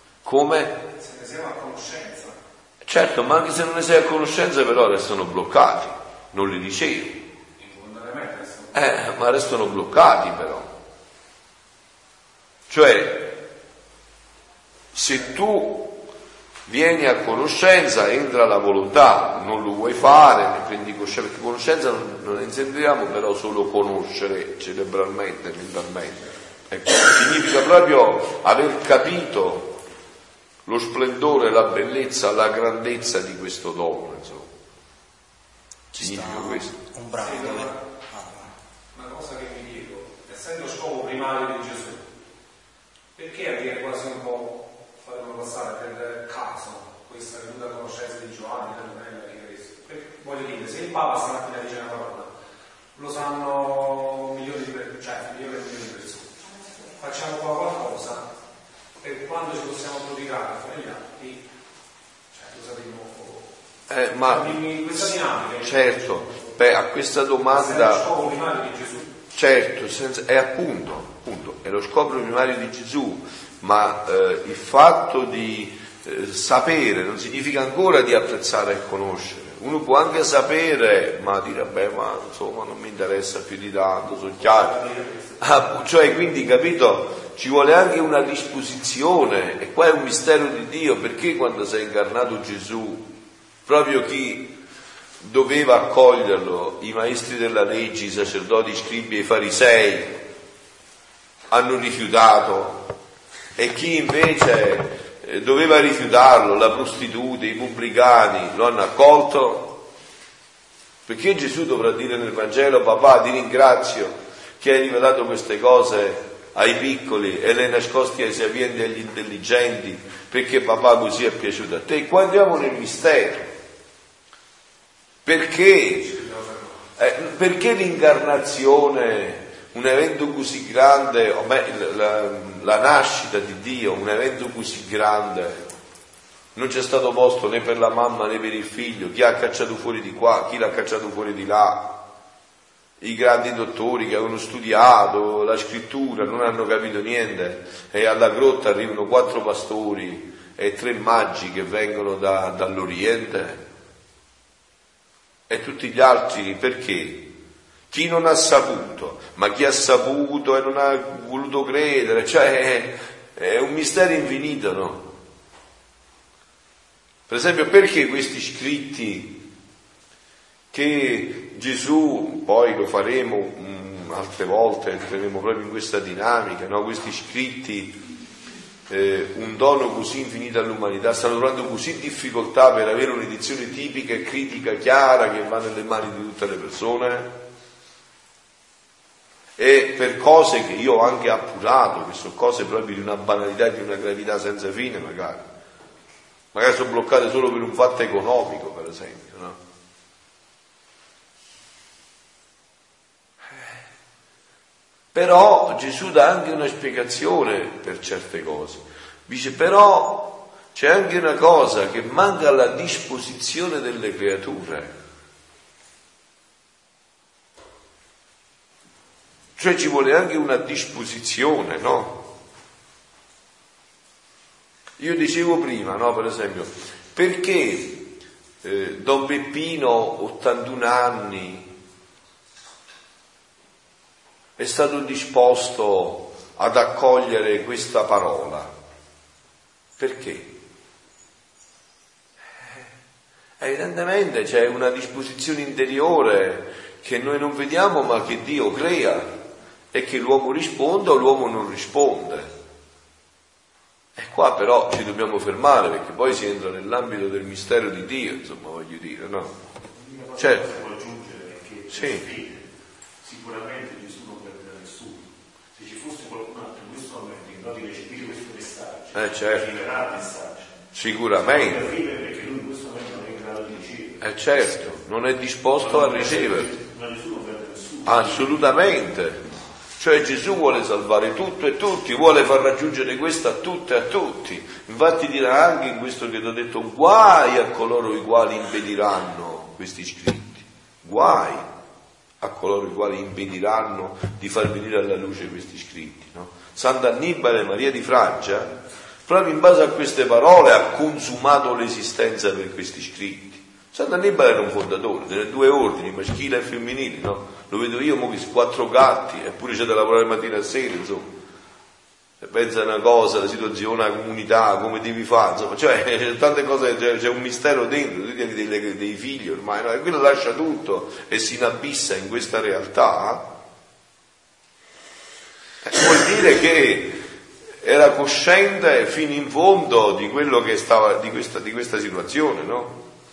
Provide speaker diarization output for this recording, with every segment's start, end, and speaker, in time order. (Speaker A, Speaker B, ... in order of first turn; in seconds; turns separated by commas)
Speaker A: 0.2-0.8, Speaker B: 1.0-2.4, Speaker A: 2.9-7.2, Speaker B: 7.6-8.7, Speaker A: 8.7-10.7, Speaker A: 12.7-13.3, Speaker A: 14.9-16.0, Speaker A: 16.7-29.8, Speaker A: 30.6-34.5, Speaker C: 35.9-38.5, Speaker A: 36.0-36.7, Speaker B: 37.2-37.8, Speaker B: 38.9-42.0, Speaker B: 43.1-52.3, Speaker B: 53.0-58.2, Speaker B: 59.0-61.5, Speaker B: 62.3-63.5, Speaker A: 63.9-65.1, Speaker B: 64.2-66.5, Speaker A: 65.6-68.0, Speaker B: 67.5-69.1, Speaker A: 69.3-84.8, Speaker A: 85.4-93.1, Speaker A: 93.7-94.5, Speaker A: 95.2-100.2, Speaker A: 101.5-102.9, Speaker A: 103.5-109.8, Speaker A: 111.0-123.5, Speaker A: 125.2-126.2, Speaker A: 127.0-135.7, Speaker A: 136.5-142.0, Speaker A: 143.0-153.6, Speaker A: 155.5-157.3, Speaker A: 157.9-165.1, Speaker A: 167.3-169.4, Speaker A: 170.7-178.0, Speaker A: 178.9-187.4, Speaker A: 189.6-195.5, Speaker A: 196.5-199.6, Speaker A: 205.1-214.9, Speaker A: 219.6-222.2, Speaker A: 225.0-228.1, Speaker A: 228.6-231.7, Speaker A: 234.6-238.7, Speaker A: 240.0-240.5, Speaker A: 243.6-249.3, Speaker A: 249.9-252.5, Speaker A: 254.2-259.5, Speaker D: 259.9-262.6, Speaker A: 260.4-260.7, Speaker A: 261.9-262.2, Speaker D: 263.2-270.7, Speaker A: 269.1-269.7, Speaker A: 270.9-271.8, Speaker D: 271.4-274.2, Speaker A: 274.2-276.7, Speaker D: 275.8-278.9, Speaker A: 278.0-279.4, Speaker A: 280.0-291.6, Speaker A: 292.4-311.4, Speaker A: 312.4-323.5, Speaker A: 325.8-327.2, Speaker A: 327.8-333.0